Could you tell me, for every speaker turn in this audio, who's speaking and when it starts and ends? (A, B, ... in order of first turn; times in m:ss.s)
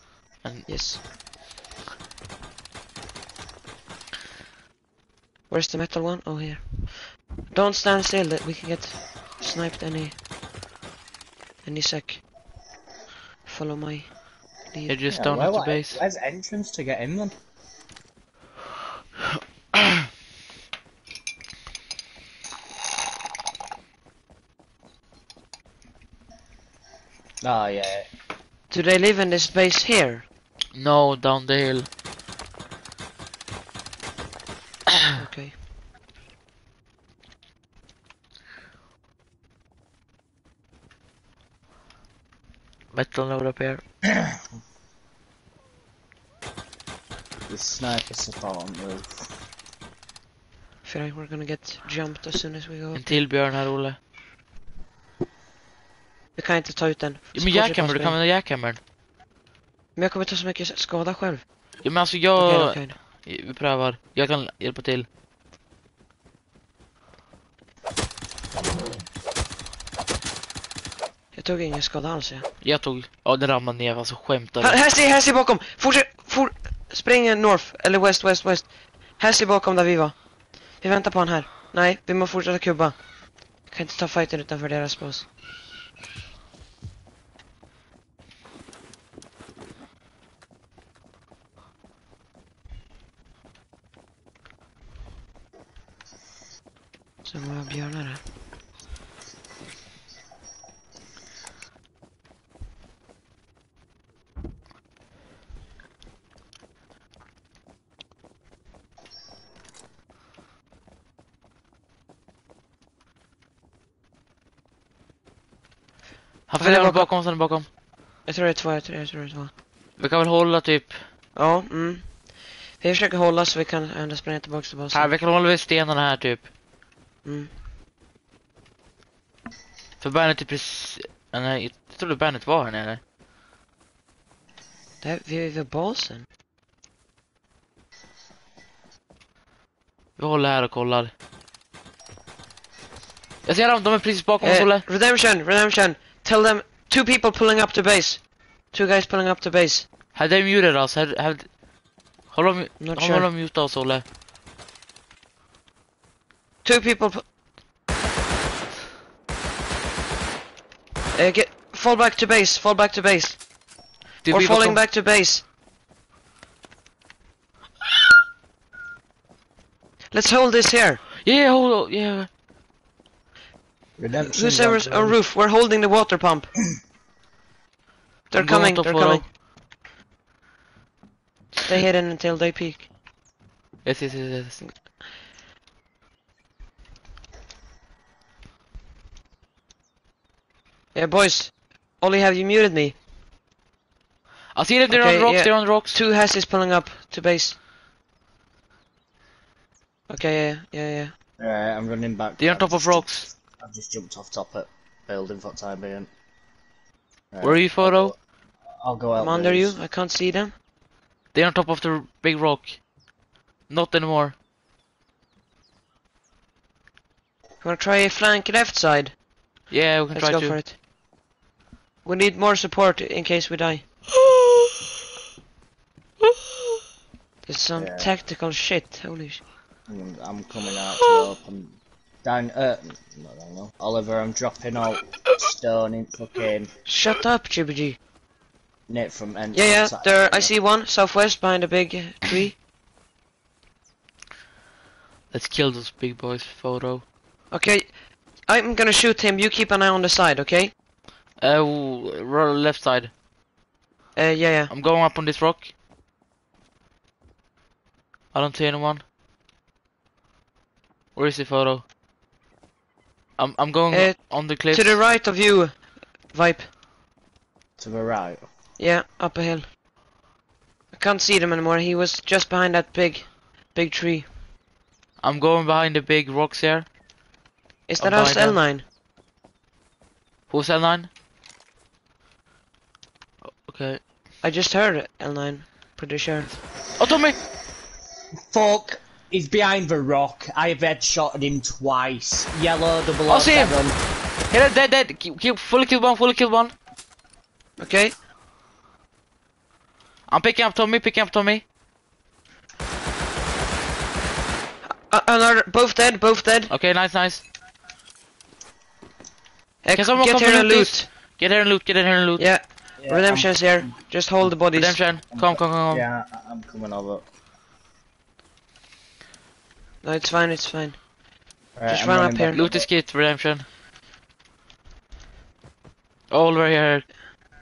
0:00.3-0:00.7 A
0:00.7-0:01.0 B
0:05.5-0:10.2 B
0:11.6-0:12.2 B
0:13.4-0:15.0 B
0:14.9-0:16.0 A
0:15.1-0:17.3 C
0:27.4-0:28.1 C
0:28.7-0:30.2 B
0:30.7-0:31.9 A
0:35.2-0:35.6 B
0:42.9-0:43.8 A
0:47.5-0:49.3 C
0:50.8-0:53.3 B
0:53.0-0:54.0 A
0:56.4-0:58.2 B
0:57.4-0:58.8 A
1:00.0-1:03.0 B
1:01.8-1:05.1 A
1:11.3-1:12.5 B
1:12.6-1:14.8 A
1:14.6-1:25.3 B
1:37.2-1:38.2 B
1:56.5-1:57.7 A
1:56.6-1:59.5 B
2:00.0-2:01.1 A
2:01.4-2:05.2 B
2:04.9-2:06.5 A
2:07.2-2:07.5 B
2:10.0-2:13.0 A
2:15.0-2:16.3 B
2:20.2-2:21.1 A
2:23.4-2:24.9 A
2:24.4-2:29.9 B
2:30.1-2:31.6 A
2:32.3-2:34.0 A
2:32.8-2:33.3 B
2:36.6-2:37.3 B
2:41.2-2:43.5 B
2:44.2-2:44.8 A
2:44.3-2:45.4 B
2:50.1-2:51.0 B
2:51.2-2:52.3 A
2:54.0-2:55.2 C
2:54.2-2:56.6 B
2:58.3-2:59.3 B
2:58.4-2:59.3 A
3:01.6-3:02.9 B
3:03.8-3:04.8 A
3:04.6-3:04.9 B
3:10.9-3:13.0 B
3:14.6-3:16.0 A
3:14.9-3:17.6 B
3:20.1-3:21.1 B
3:21.4-3:26.1 C
3:22.4-3:23.3 A
3:27.3-3:28.2 C
3:27.4-3:28.1 A
3:28.7-3:29.8 C
3:29.2-3:30.6 B
3:31.3-3:32.9 A
3:33.7-3:34.4 A
3:37.6-3:39.2 B
3:39.7-3:40.6 A
3:40.1-3:40.8 B
3:42.0-3:43.9 B
3:47.5-3:49.4 B
3:47.8-3:48.1 C
3:49.9-3:56.7 C
3:56.9-3:58.0 B
3:58.9-4:00.5 C
3:59.5-4:02.6 B
4:05.3-4:07.0 A
4:07.5-4:10.7 B
4:11.4-4:13.1 A
4:14.2-4:14.7 B
4:14.7-4:15.7 A
4:18.3-4:19.0 A
4:21.2-4:21.8 A
4:23.4-4:25.0 A
4:23.9-4:26.7 B
4:27.8-4:28.4 C
4:28.8-4:29.7 B
4:30.9-4:34.3 B
4:35.2-4:36.9 A
4:37.9-4:38.8 B
4:38.0-4:38.6 A
4:40.5-4:41.1 A
4:43.5-4:44.0 A
4:44.4-4:46.5 B
4:46.5-4:47.4 A
4:48.5-4:54.0 C
4:53.3-4:56.7 A
4:57.8-4:58.2 B
5:00.3-5:01.6 A
5:04.9-5:06.7 B
5:06.7-5:07.5 A
5:09.8-5:11.1 B
5:10.0-5:12.5 A
5:12.4-5:15.0 B
5:13.0-5:13.9 C
5:14.7-5:16.0 A
5:15.3-5:17.2 C
5:20.0-5:21.1 B
5:21.8-5:22.9 C
5:21.9-5:22.6 B
5:22.5-5:23.7 A
5:26.3-5:27.1 A